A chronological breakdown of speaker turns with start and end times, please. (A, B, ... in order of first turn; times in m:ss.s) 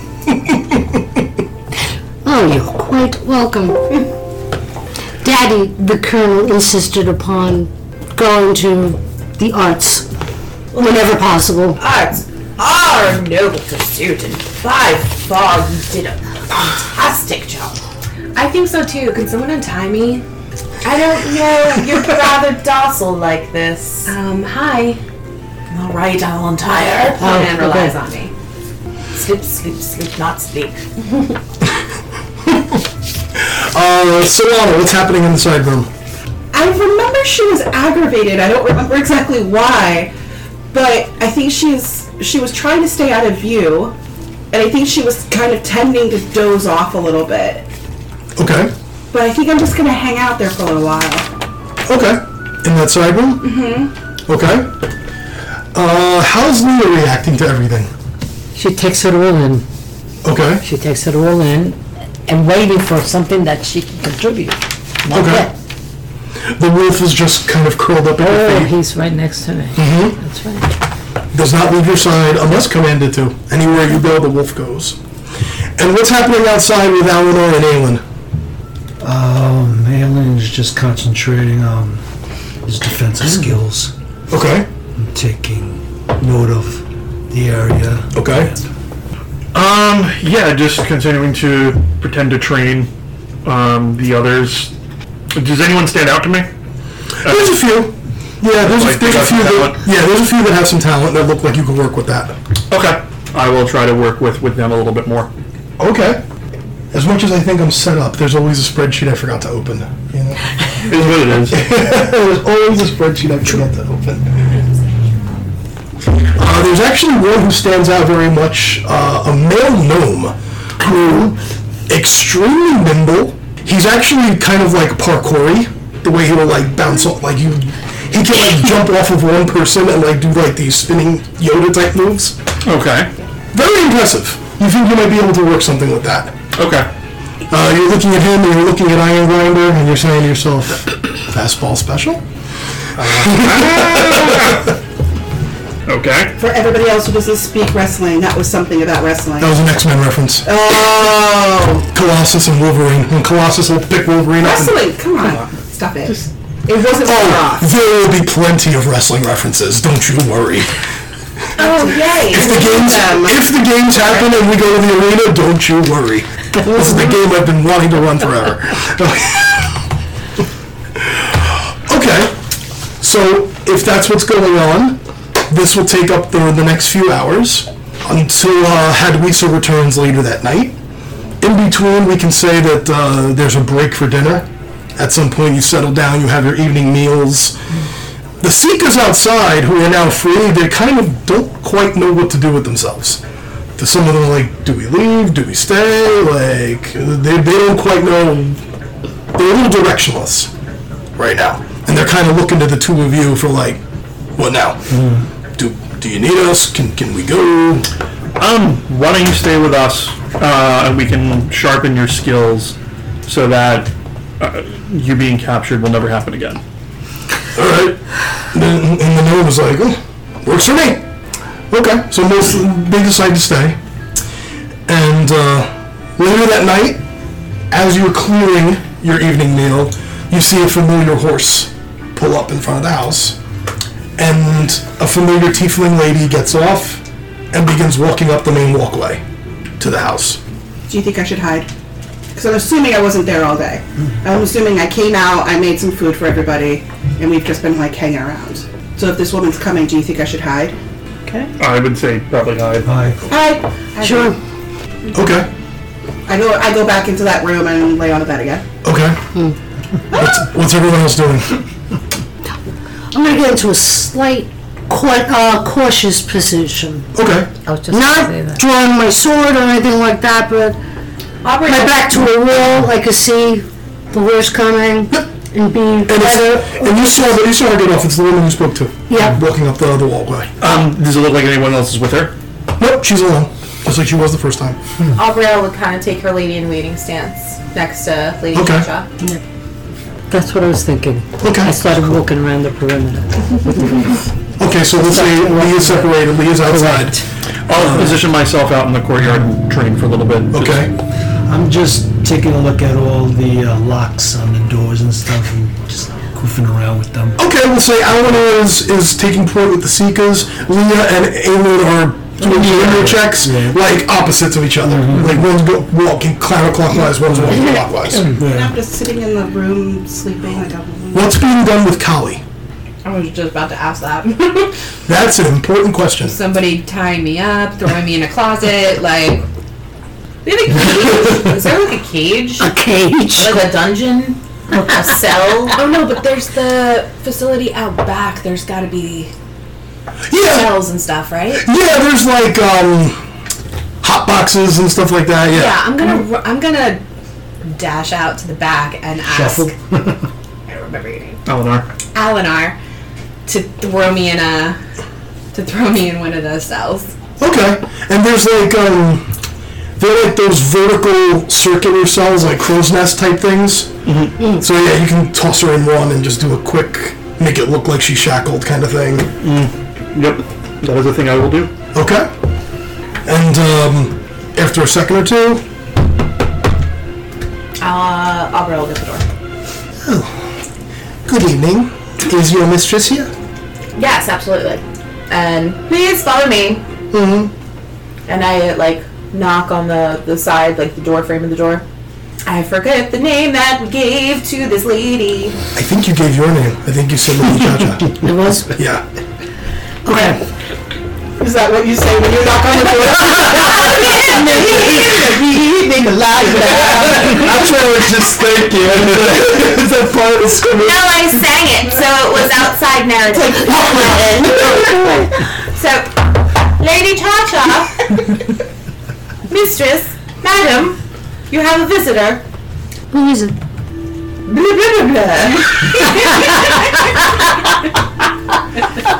0:02.2-0:04.0 A
0:05.2-0:10.1 A
0:10.7-0:11.2 B
0:10.8-0:11.8 A
0:11.7-0:17.8 B
0:18.3-0:20.2 C
0:20.8-0:24.1 B
0:24.0-0:25.0 C
0:25.7-0:27.4 B
0:26.9-0:28.3 C
0:27.2-0:27.9 D
0:29.1-0:30.8 B
0:33.4-0:35.9 E
0:36.5-0:40.1 F
0:40.7-0:43.9 F
0:44.5-0:47.7 F
0:48.4-0:48.7 E
0:49.1-0:51.3 F
0:51.8-0:53.6 E
0:53.4-0:53.9 F
0:54.3-0:54.7 E
0:55.7-0:57.9 E
0:58.5-0:59.6 D
1:00.2-1:00.6 E
1:00.6-1:05.5 D
1:05.1-1:05.5 E
1:06.5-1:08.7 E
1:08.2-1:10.7 D
1:09.8-1:10.2 E
1:11.3-1:15.0 E
1:15.8-1:18.0 E
1:19.0-1:22.0 G
1:22.6-1:23.9 G
1:24.3-1:24.7 E
1:25.0-1:28.5 G
1:28.1-1:28.5 E
1:29.5-1:32.9 H
1:33.4-1:34.7 H
1:35.3-1:36.5 H
1:37.2-1:37.6 H
1:37.2-1:42.4 E
1:38.6-1:39.8 H
1:42.7-1:45.3 H
1:45.8-1:46.2 E
1:46.9-1:50.4 E
1:50.8-1:51.7 H
1:50.9-1:54.3 E
1:56.4-2:12.4 E
2:12.6-2:13.1 H
2:13.5-2:16.4 E
2:16.5-2:16.9 H
2:17.5-2:22.2 E
2:23.0-2:24.7 H
2:23.1-2:24.7 E
2:25.9-2:26.4 H
2:26.4-2:29.6 F
2:29.4-2:30.5 E
2:30.4-2:31.9 F
2:31.9-2:34.9 E
2:34.4-2:37.7 F
2:37.0-2:40.7 E
2:41.6-2:43.0 B
2:41.6-2:43.5 F
2:42.3-2:49.8 E
2:46.6-2:47.2 A
2:51.0-2:52.4 E
2:53.0-3:00.8 E
3:01.4-3:07.6 E
3:08.4-3:13.2 E
3:13.8-3:18.6 E
3:19.3-3:20.5 E
3:21.2-3:23.8 E
3:24.4-3:24.9 E
3:24.9-3:25.2 H
3:25.6-3:27.9 E
3:28.4-3:36.6 H
3:37.5-3:38.0 E
3:38.5-3:41.0 E
3:41.7-3:43.8 E
3:44.9-3:47.0 E
3:47.7-3:53.4 E
3:54.2-3:59.2 E
3:59.8-4:00.4 E
4:00.9-4:01.7 F
4:02.4-4:10.8 F
4:11.6-4:13.1 H
4:12.8-4:13.2 G
4:13.3-4:14.4 F
4:14.0-4:14.4 A
4:15.1-4:15.5 E
4:16.3-4:18.6 F
4:18.8-4:19.2 E
4:20.1-4:21.6 E
4:20.1-4:20.4 F
4:23.1-4:27.1 A
4:27.1-4:27.5 E
4:27.6-4:28.6 D
4:27.9-4:30.8 A
4:31.4-4:32.1 B
4:31.6-4:37.2 A
4:36.0-4:40.5 E
4:39.1-4:39.4 A
4:40.6-4:42.3 H
4:42.8-4:44.8 E
4:45.1-4:49.1 B
4:48.5-4:48.9 E
4:50.3-4:54.2 D
4:51.4-4:51.8 E
4:54.6-4:58.2 E
4:55.0-4:57.1 D
4:57.7-5:01.0 H
5:00.5-5:00.9 E
5:01.4-5:07.4 G
5:07.4-5:18.4 E
5:12.4-5:13.8 G
5:14.8-5:15.4 G
5:18.2-5:18.8 G
5:18.4-5:21.4 F
5:21.1-5:22.4 E
5:23.0-5:24.7 C
5:25.1-5:26.4 E
5:26.2-5:29.5 C
5:30.4-5:32.7 B
5:32.6-5:33.8 A
5:33.3-5:35.8 B
5:35.7-5:39.3 C
5:40.3-5:40.9 E
5:40.4-5:41.7 C
5:41.5-5:43.2 E
5:44.0-5:45.9 E
5:45.5-5:47.0 C
5:47.6-5:49.8 C
5:49.3-5:50.1 G
5:50.7-5:51.4 C
5:51.4-5:51.9 H
5:52.1-5:52.8 C
5:53.4-5:54.8 C
5:55.5-5:57.1 C
5:57.4-5:59.3 E
6:00.0-6:03.9 E
6:04.0-6:04.4 H
6:04.4-6:09.3 E
6:09.4-6:11.7 H
6:11.9-6:12.3 E
6:13.2-6:15.6 E
6:17.8-6:19.2 B
6:20.0-6:20.3 E
6:21.2-6:23.3 E
6:24.0-6:26.8 B
6:27.1-6:27.5 E
6:28.3-6:31.8 B
6:32.4-6:35.6 B
6:35.7-6:38.2 E
6:38.1-6:38.8 A
6:38.8-6:39.0 E
6:40.0-6:40.4 A
6:41.4-6:47.6 F
6:43.4-6:45.3 B
6:47.0-6:50.7 G
6:47.2-6:51.0 E
6:50.7-6:56.2 B
6:53.3-6:55.0 F
6:54.6-6:55.2 A
6:56.8-6:58.4 B
6:59.5-7:01.0 B
7:01.5-7:02.4 B
7:03.1-7:03.5 A
7:04.4-7:07.2 B